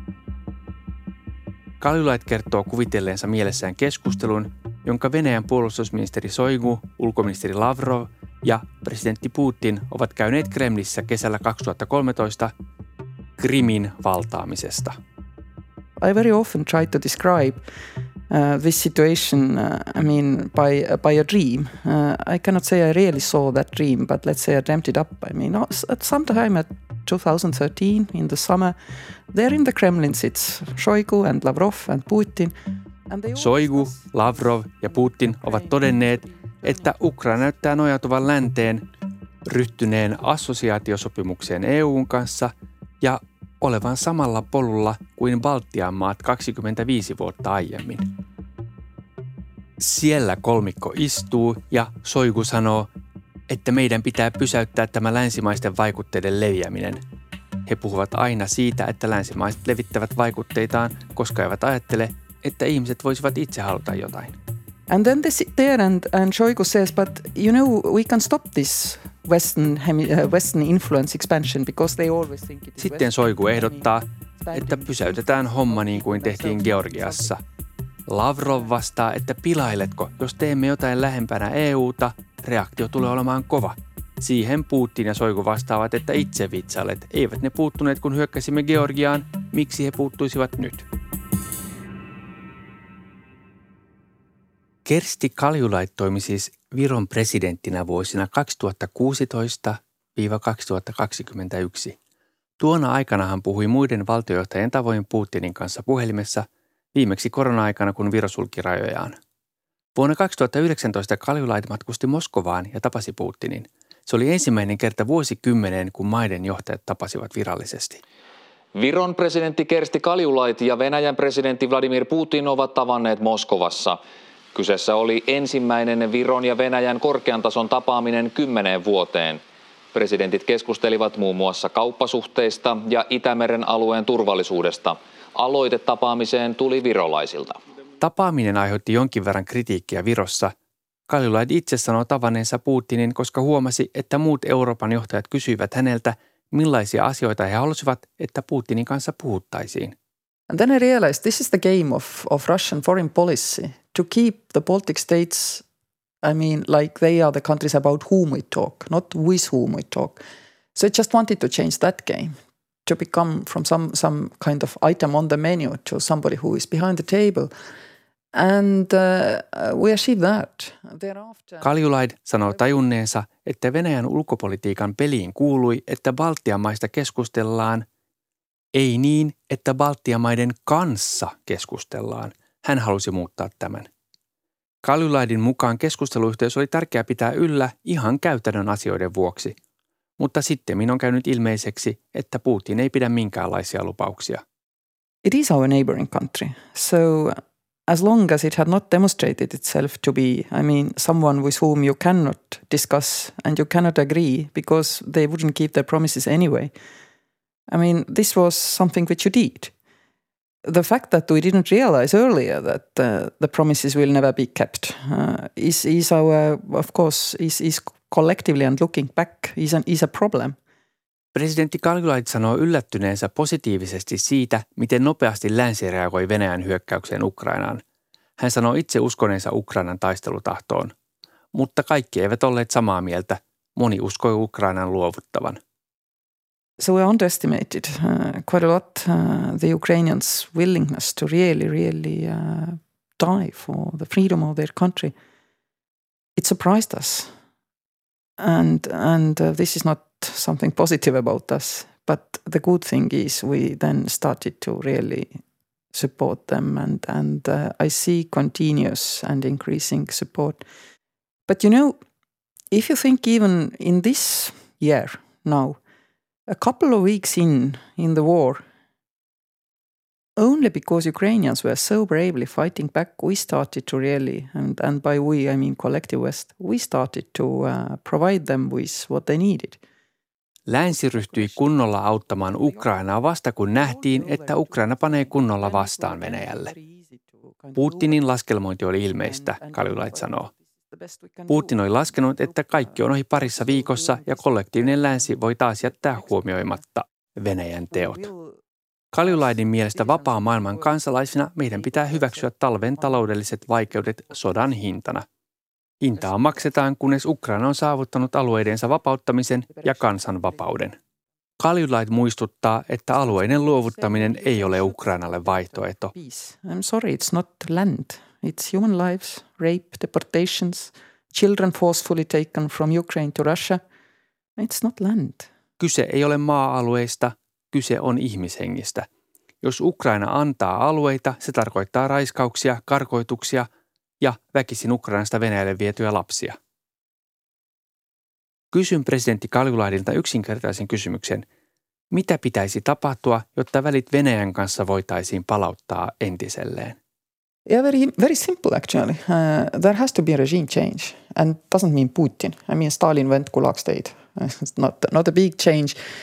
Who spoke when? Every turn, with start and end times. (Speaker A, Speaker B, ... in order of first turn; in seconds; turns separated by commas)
Speaker A: 1.8-12.5, Speaker A: 13.4-14.9, Speaker B: 16.0-17.6, Speaker B: 18.3-28.8, Speaker B: 29.3-32.5, Speaker B: 33.1-37.1, Speaker A: 33.3-38.8, Speaker A: 39.5-48.0, Speaker A: 49.8-52.9, Speaker A: 53.5-57.0, Speaker A: 57.6-64.3, Speaker B: 64.9-77.3, Speaker A: 72.8-77.4, Speaker A: 78.1-90.9, Speaker A: 94.8-102.0, Speaker A: 102.6-109.2, Speaker A: 110.0-118.0, Speaker C: 118.7-124.0, Speaker C: 124.5-129.4, Speaker C: 129.9-137.6, Speaker A: 138.0-140.5, Speaker A: 141.1-149.9, Speaker B: 150.5-155.6, Speaker B: 156.2-160.2, Speaker B: 160.7-162.3, Speaker B: 162.8-167.5, Speaker B: 168.3-171.7, Speaker A: 171.6-177.8, Speaker A: 178.7-183.9, Speaker A: 184.8-189.5, Speaker A: 190.2-194.4, Speaker B: 195.2-197.3, Speaker B: 197.9-206.7, Speaker B: 207.7-209.7, Speaker B: 210.6-220.6, Speaker A: 221.3-227.8, Speaker A: 228.4-230.9, Speaker A: 231.5-235.6, Speaker B: 236.8-245.1, Speaker B: 246.3-247.3, Speaker B: 248.4-255.4, Speaker B: 255.9-260.6, Speaker B: 261.5-261.9, Speaker B: 262.7-265.8, Speaker B: 266.5-268.6, Speaker B: 270.4-279.8, Speaker A: 280.7-286.7, Speaker B: 281.0-282.9, Speaker B: 283.8-288.3, Speaker A: 287.8-290.5, Speaker B: 289.2-296.7, Speaker A: 291.5-298.2, Speaker B: 297.9-298.6, Speaker A: 299.1-305.2, Speaker B: 299.2-300.9, Speaker B: 301.8-303.3, Speaker A: 306.0-310.9, Speaker B: 309.7-310.6, Speaker A: 311.6-316.1, Speaker B: 313.2-323.8, Speaker B: 324.6-325.5, Speaker A: 325.8-329.1, Speaker A: 329.6-333.7, Speaker A: 334.2-336.6, Speaker A: 338.7-341.4, Speaker A: 342.1-347.0, Speaker B: 347.6-356.0